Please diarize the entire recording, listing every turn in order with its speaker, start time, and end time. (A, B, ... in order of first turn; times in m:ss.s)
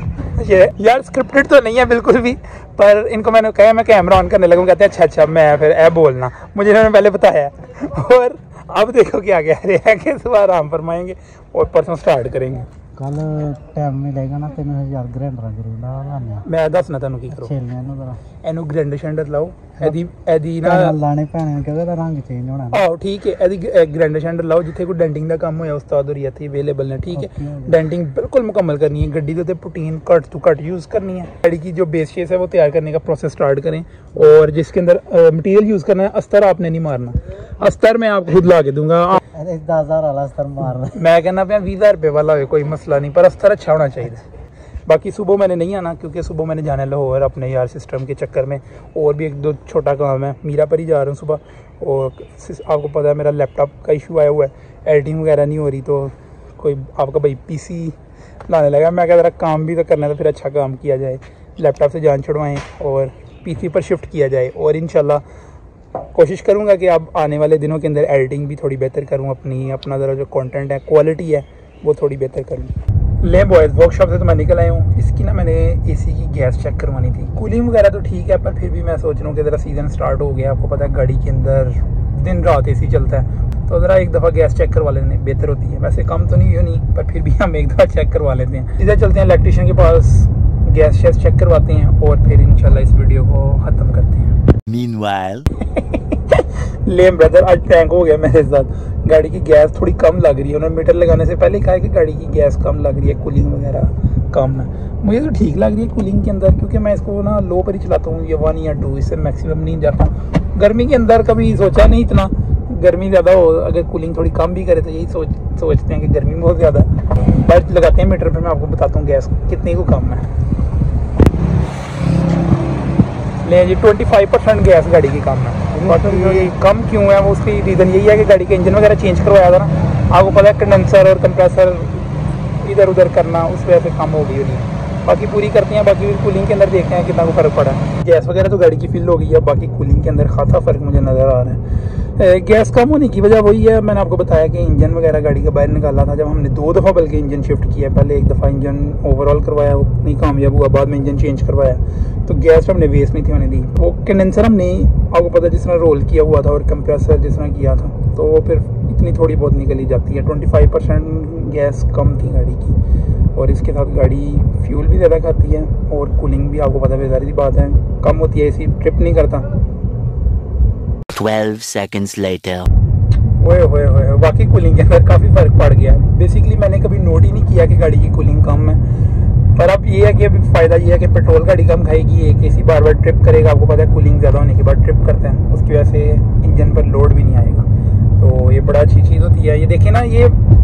0:00.4-0:12.7 A
0:13.0-0:16.4 B
0:16.4-0:17.5 A
0:17.3-0:18.2 B
0:18.4-0:21.0 A
0:20.6-0:22.8 B
0:22.7-0:39.2 A
0:27.2-0:27.8 B
0:39.3-0:41.0 B
0:40.9-0:44.3 A
0:44.9-0:58.0 A
0:58.5-1:05.2 A
1:06.1-1:34.3 A
1:34.7-1:35.5 C
1:35.7-2:00.3 A
2:03.4-2:21.6 A
2:05.8-2:06.5 B
2:22.2-2:42.8 A
2:43.4-2:49.5 A
2:51.1-2:52.7 C
2:53.4-2:58.8 A
2:59.6-3:07.7 A
3:08.2-3:10.4 A